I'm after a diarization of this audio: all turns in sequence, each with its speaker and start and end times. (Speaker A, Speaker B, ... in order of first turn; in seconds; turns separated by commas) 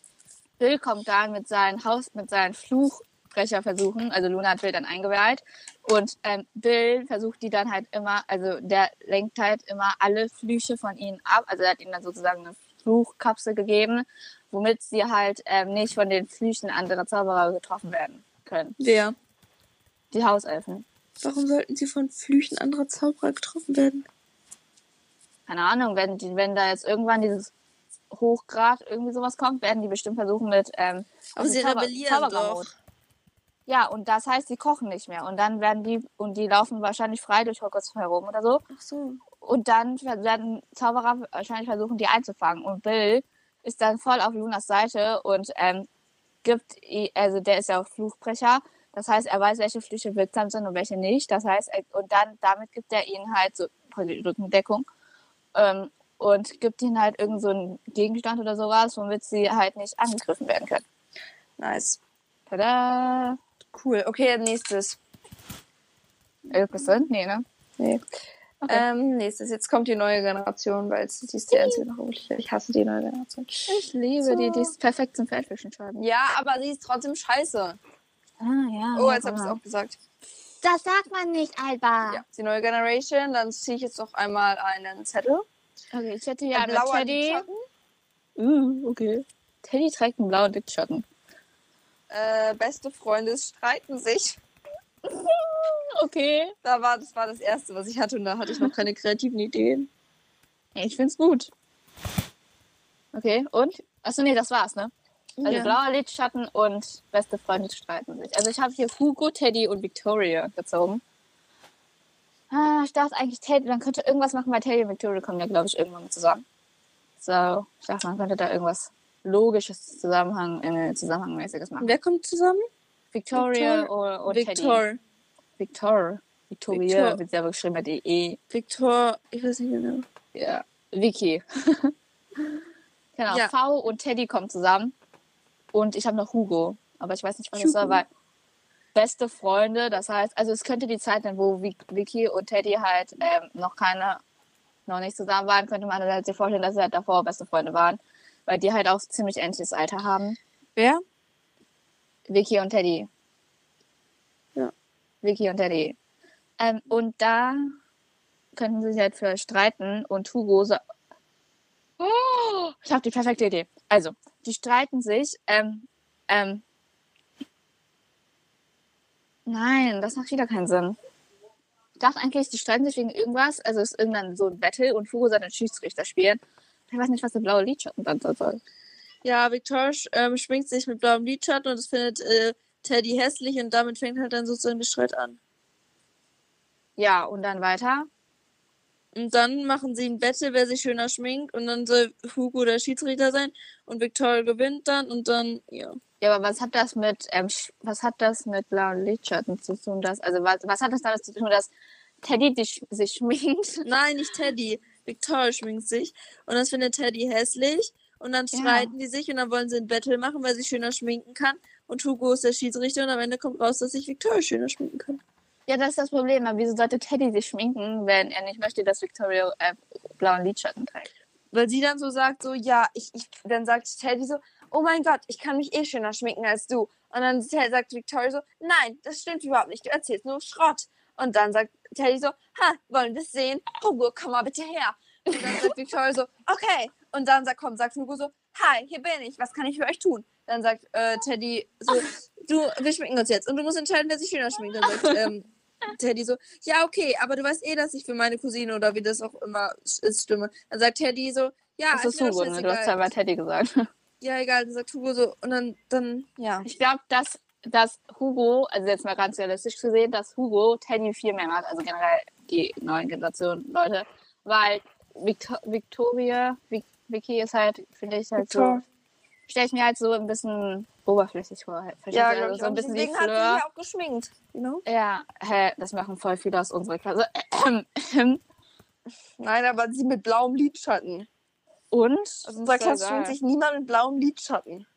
Speaker A: 0.6-18.8, Speaker B: 18.8-19.1, Speaker A: 20.1-20.9, Speaker B: 21.2-24.1, Speaker A: 25.5-27.5, Speaker A: 28.1-32.7, Speaker B: 31.4-32.7, Speaker A: 33.7-38.6, Speaker B: 38.7-39.2, Speaker A: 39.4-45.9, Speaker A: 46.4-54.9, Speaker A: 55.5-60.8, Speaker B: 61.6-62.0, Speaker A: 62.5-63.4, Speaker B: 63.7-65.0, Speaker A: 66.5-67.4, Speaker B: 67.8-68.1, Speaker B: 68.7-74.7, Speaker A: 71.5-71.8, Speaker A: 73.7-76.1, Speaker B: 76.0-77.8, Speaker A: 78.4-79.6, Speaker B: 79.0-80.0, Speaker A: 80.6-82.2, Speaker B: 82.1-85.5, Speaker A: 85.9-87.5, Speaker B: 86.5-87.6, Speaker A: 88.4-91.1, Speaker B: 92.1-94.4, Speaker A: 95.0-96.5, Speaker B: 96.6-99.9, Speaker A: 100.8-101.5, Speaker A: 103.1-104.9, Speaker B: 105.4-105.8, Speaker A: 105.5-111.0, Speaker A: 112.5-116.4, Speaker A: 117.2-121.9, Speaker B: 121.8-122.7, Speaker A: 123.1-124.8, Speaker B: 123.4-125.0, Speaker A: 125.6-128.4, Speaker B: 126.7-127.2, Speaker B: 128.5-130.1, Speaker A: 130.3-131.9, Speaker A: 133.2-134.9, Speaker A: 135.7-138.1, Speaker B: 137.5-138.0, Speaker A: 138.9-144.2, Speaker A: 144.9-150.4, Speaker B: 150.8-151.0, Speaker A: 152.3-153.1, Speaker A: 155.2-156.0, Speaker A: 156.6-157.7, Speaker A: 158.6-160.8, Speaker A: 162.0-166.6, Speaker A: 169.5-171.0, Speaker A: 172.0-178.6, Speaker B: 179.2-185.4, Speaker A: 187.0-188.1, Speaker B: 189.2-196.0, Speaker A: 196.2-201.7, Speaker A: 202.2-203.9, Speaker B: 203.8-215.2, Speaker A: 208.5-208.9, Speaker A: 215.7-221.1, Speaker B: 221.5-253.1, Speaker A: 251.9-253.9, Speaker B: 254.2-256.7, Speaker A: 256.6-268.8, Speaker B: 268.4-268.8, Speaker A: 269.5-273.6, Speaker B: 272.1-274.8, Speaker A: 274.9-278.4, Speaker B: 279.4-281.3, Speaker A: 281.9-283.4, Speaker B: 282.4-284.9